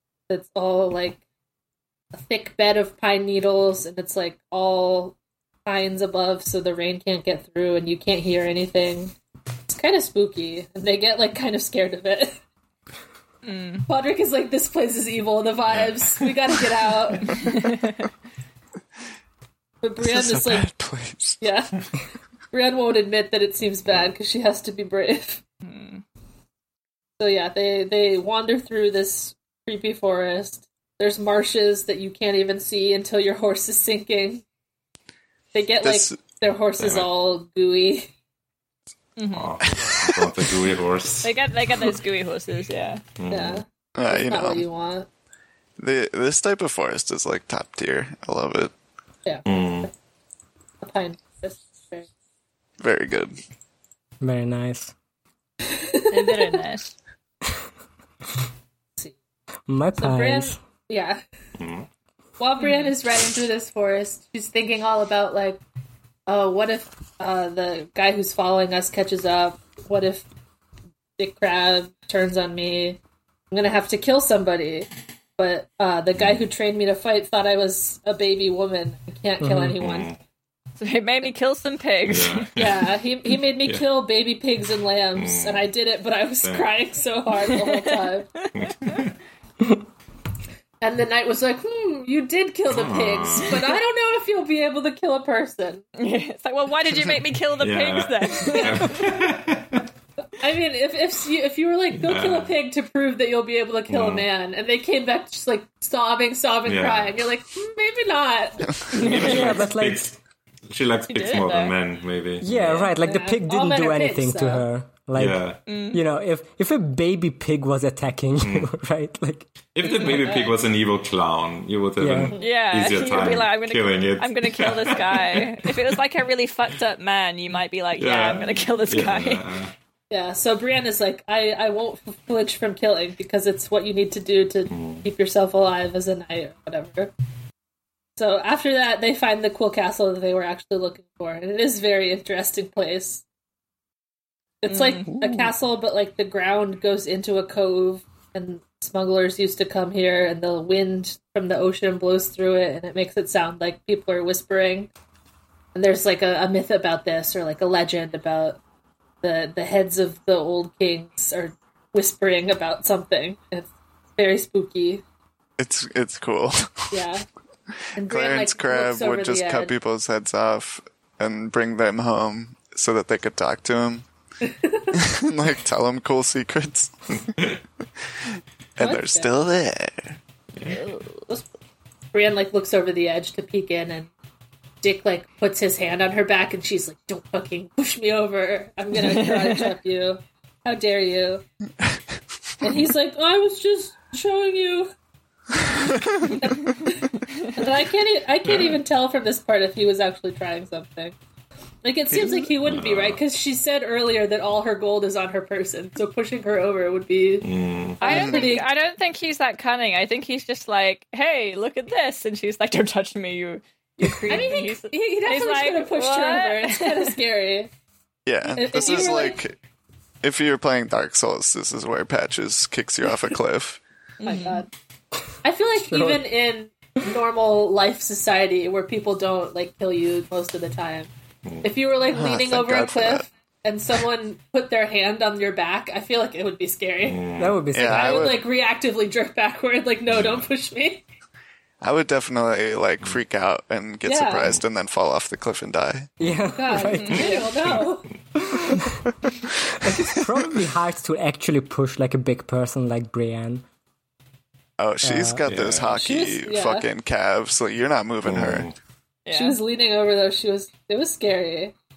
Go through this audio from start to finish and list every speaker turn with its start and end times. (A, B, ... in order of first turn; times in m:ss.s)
0:00.3-0:01.2 A
0:02.1-0:09.1 A
0:09.7-0:12.4 A
0:13.4-0:13.9 B
0:13.9-0:17.5 A
0:15.7-0:16.2 C
0:17.3-0:18.0 B
0:19.8-0:20.7 A
0:20.0-0:21.4 D
0:21.4-0:21.7 A
0:22.5-0:25.4 A
0:25.6-0:26.0 B
0:27.2-0:34.4 A
0:35.5-0:38.1 A
0:35.8-0:36.2 D
0:36.8-0:37.1 C
0:39.2-0:39.5 B
0:39.3-0:41.3 C
0:39.7-0:40.3 D
0:41.2-0:43.0 B
0:43.2-0:43.6 C
0:43.3-0:45.1 A
0:44.0-0:44.6 D
0:45.8-0:48.7 D
0:49.2-0:49.9 A
0:49.4-0:49.9 C
0:50.8-0:52.1 A
0:52.8-0:53.3 D
0:54.2-0:54.9 E
0:55.7-0:56.5 A
0:56.1-0:56.9 B
0:59.7-1:00.6 E
1:00.0-1:01.2 A
1:01.6-1:01.9 C
1:02.4-1:05.6 A
1:02.6-1:02.9 B
1:06.3-1:10.3 A
1:11.2-1:13.0 A
1:13.5-1:20.1 A
1:16.2-1:16.5 C
1:19.4-1:19.8 E
1:19.8-1:20.2 C
1:20.8-1:22.5 B
1:22.1-1:23.0 C
1:22.5-1:28.4 A
1:25.2-1:25.7 C
1:26.4-1:26.7 C
1:27.5-1:29.0 B
1:28.6-1:29.1 C
1:30.8-1:35.8 A
1:32.7-1:33.7 C
1:36.0-1:39.0 B
1:37.6-1:39.9 C
1:38.5-1:39.0 A
1:40.4-1:48.7 A
1:41.9-1:42.5 C
1:43.9-1:44.3 C
1:46.6-1:47.2 C
1:48.9-1:50.2 C
1:48.9-1:49.5 B
1:49.0-1:50.1 E
1:50.7-1:53.0 C
1:51.1-1:51.7 B
1:52.4-1:59.5 E
1:53.0-1:54.6 A
1:55.1-1:55.6 C
1:55.7-1:56.0 B
1:58.4-1:58.7 C
1:59.7-2:05.4 C
2:00.0-2:00.5 A
2:02.0-2:02.3 E
2:02.4-2:09.4 B
2:08.0-2:09.7 C
2:10.1-2:17.1 A
2:14.7-2:15.1 C
2:18.2-2:23.2 A
2:24.6-2:34.9 A
2:24.7-2:25.1 B
2:35.7-2:38.6 A
2:39.2-2:45.0 A
2:45.6-2:47.0 D
2:46.9-2:47.2 A
2:48.0-2:49.7 A
2:48.0-2:54.0 D
2:54.4-2:55.0 A
2:54.9-2:57.3 D
2:58.8-3:00.2 D
2:58.8-2:59.3 A
3:00.6-3:01.2 B
3:02.1-3:04.1 A
3:04.8-3:11.4 A
3:09.0-3:09.7 B
3:12.6-3:14.9 A
3:16.4-3:21.2 A
3:18.4-3:18.8 C
3:21.8-3:27.5 A
3:22.1-3:23.2 C
3:27.4-3:28.0 C
3:28.0-3:28.6 A
3:28.0-3:37.1 B
3:28.1-3:28.5 D
3:34.2-3:37.7 A
3:38.2-3:39.5 D
3:38.5-3:39.4 A
3:40.2-3:43.8 D
3:44.2-3:44.6 B
3:44.2-3:44.7 A
3:45.4-3:51.1 A
3:45.8-3:46.2 E
3:51.6-3:57.2 A
3:52.1-3:53.2 D
3:57.0-3:57.6 C
3:57.4-3:58.3 E
3:57.7-3:58.4 D
3:57.8-4:01.0 A
4:00.1-4:00.5 C
4:01.8-4:06.1 D
4:04.0-4:04.5 A
4:06.2-4:07.4 E
4:06.2-4:07.9 C
4:06.5-4:08.1 A
4:06.9-4:07.3 B
4:08.4-4:09.0 E
4:09.8-4:13.6 E
4:14.8-4:18.7 D
4:15.0-4:15.4 E
4:15.4-4:16.0 C
4:15.9-4:16.9 A
4:18.2-4:18.7 C
4:19.2-4:19.6 B
4:19.3-4:21.7 A